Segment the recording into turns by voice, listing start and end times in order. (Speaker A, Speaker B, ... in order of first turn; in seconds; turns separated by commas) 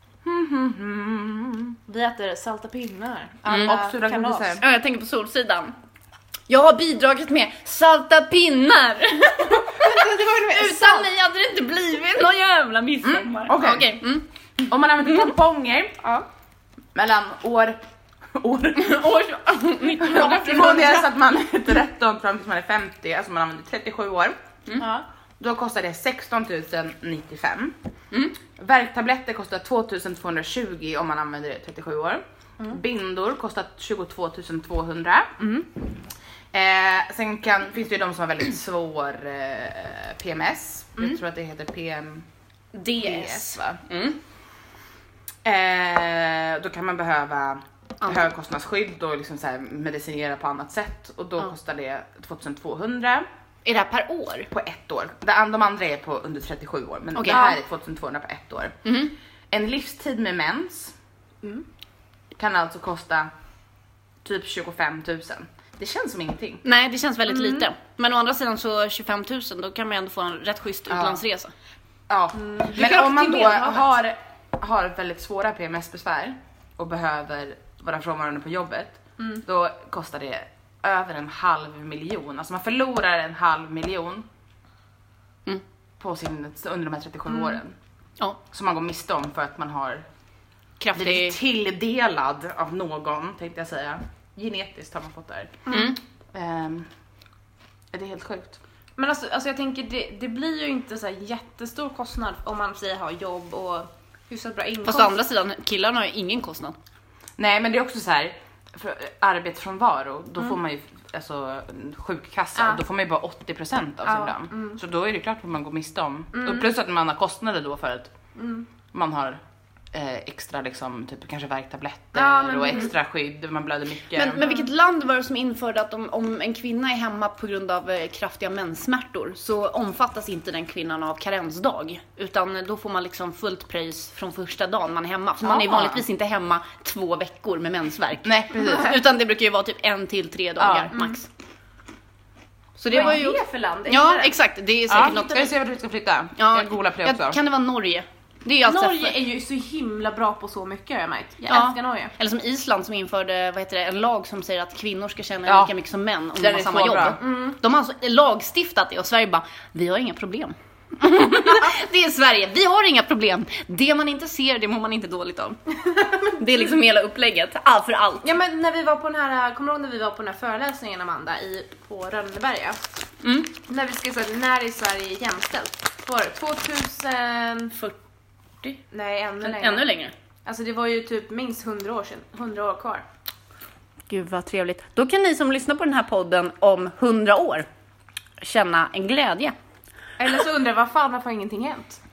Speaker A: 0.2-1.8, Speaker B: 1.9-4.5, Speaker C: 3.5-3.7, Speaker A: 3.6-4.6, Speaker C: 4.5-5.7, Speaker C: 6.5-14.3, Speaker B: 9.6-11.1, Speaker A: 13.0-13.9, Speaker A: 14.7-15.9, Speaker C: 15.0-15.3, Speaker A: 16.9-17.8, Speaker A: 18.4-19.1, Speaker C: 18.8-21.1, Speaker A: 20.0-24.4, Speaker B: 24.8-25.0, Speaker A: 25.4-27.7, Speaker A: 28.6-35.3, Speaker B: 35.4-35.7, Speaker A: 36.5-42.2, Speaker C: 42.7-44.2, Speaker A: 43.0-43.8, Speaker A: 45.4-53.2, Speaker C: 48.0-48.3, Speaker C: 53.6-54.5, Speaker A: 54.5-58.8, Speaker C: 57.1-57.4, Speaker B: 57.3-57.6, Speaker C: 58.9-59.1, Speaker A: 59.5-60.9, Speaker A: 62.4-63.3, Speaker A: 64.2-66.6, Speaker C: 66.6-71.5, Speaker B: 67.3-67.7, Speaker A: 70.9-71.2, Speaker A: 72.1-84.2, Speaker B: 72.4-73.9, Speaker A: 86.0-87.7, Speaker A: 88.5-90.0, Speaker C: 90.8-91.4, Speaker A: 91.0-95.8, Speaker C: 95.7-96.0, Speaker A: 96.3-96.9, Speaker A: 97.9-98.6, Speaker B: 99.0-105.2, Speaker C: 104.8-106.8, Speaker A: 107.4-118.1, Speaker B: 112.6-112.8, Speaker B: 114.0-114.8, Speaker B: 116.3-116.7, Speaker B: 118.3-118.7, Speaker A: 118.9-119.4, Speaker A: 119.9-124.5, Speaker B: 122.1-122.9, Speaker C: 124.1-141.3, Speaker B: 124.4-124.7, Speaker A: 135.4-136.0, Speaker A: 138.2-139.0, Speaker A: 140.6-140.9, Speaker B: 140.9-141.2, Speaker C: 142.8-145.5, Speaker B: 142.9-144.4, Speaker A: 144.9-147.4, Speaker C: 146.4-149.2, Speaker B: 148.6-152.1, Speaker C: 151.5-165.6, Speaker A: 155.4-155.7, Speaker A: 156.4-157.2, Speaker B: 157.2-157.5, Speaker B: 165.8-166.7, Speaker C: 166.2-168.3, Speaker B: 168.2-172.8, Speaker C: 173.2-173.5, Speaker B: 173.6-177.7, Speaker B: 178.9-179.9, Speaker C: 179.4-180.1, Speaker B: 180.4-183.0, Speaker C: 184.1-187.7, Speaker C: 188.4-189.5, Speaker B: 190.2-192.0